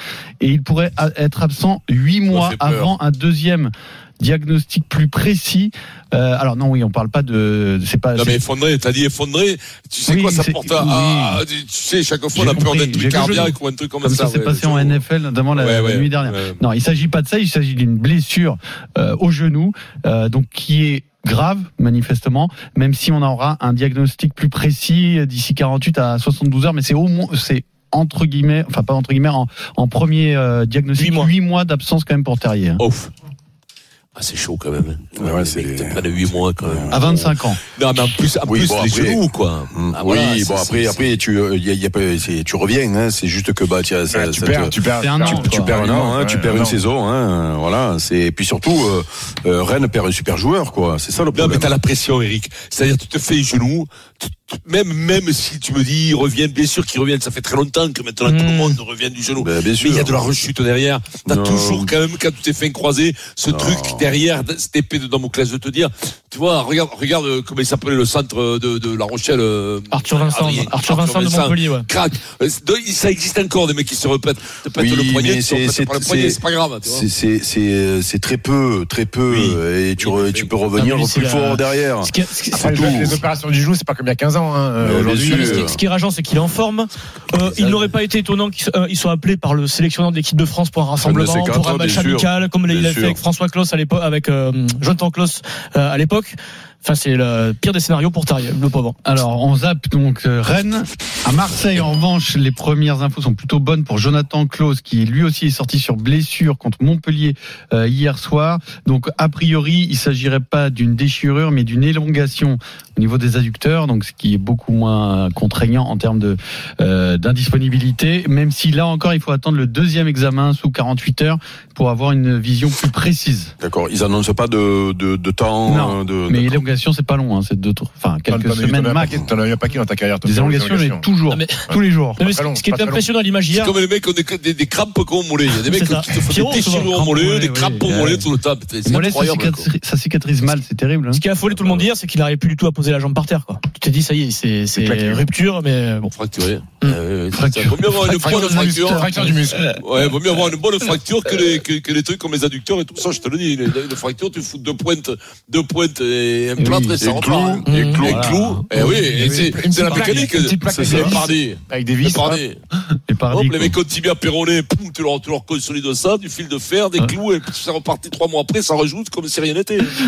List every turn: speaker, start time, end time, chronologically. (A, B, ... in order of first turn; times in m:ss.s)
0:00.4-0:08.4 A
0:02.3-0:02.9 B
0:08.1-0:15.0 B
0:10.1-0:11.4 A
0:12.3-0:32.8 A
0:15.5-0:16.6 B
0:31.0-0:31.3 C
0:32.8-0:33.1 B
0:34.2-0:41.2 B
0:35.2-0:37.1 D
0:36.9-0:37.6 A
0:38.4-0:51.7 D
0:44.1-0:46.8 E
0:44.9-0:45.8 A
0:51.3-1:17.1 B
0:58.2-0:58.8 C
0:59.4-1:00.3 D
1:01.2-1:01.9 D
1:03.5-1:04.1 D
1:09.9-1:11.9 C
1:14.8-1:23.2 D
1:19.3-1:20.6 B
1:20.7-1:23.2 C
1:22.5-1:25.8 E
1:24.8-1:25.8 D
1:24.9-1:39.0 C
1:31.0-1:33.2 D
1:39.0-2:03.5 A
2:03.6-2:06.6 D
2:05.6-2:09.3 A
2:08.3-2:11.1 E
2:10.2-2:12.3 A
2:11.3-2:13.7 C
2:11.7-2:13.0 E
2:13.5-2:19.7 B
2:15.6-2:16.9 C
2:16.8-2:18.3 A
2:18.8-2:21.2 A
2:21.1-2:26.1 C
2:26.1-2:29.2 B
2:27.3-2:29.8 A
2:28.2-2:29.6 E
2:29.8-2:42.6 B
2:36.6-2:36.9 A
2:37.0-2:38.6 D
2:37.6-2:38.0 C
2:38.0-2:38.7 A
2:38.7-2:42.4 E
2:40.7-2:41.3 D
2:43.1-2:43.8 A
2:43.3-2:49.9 B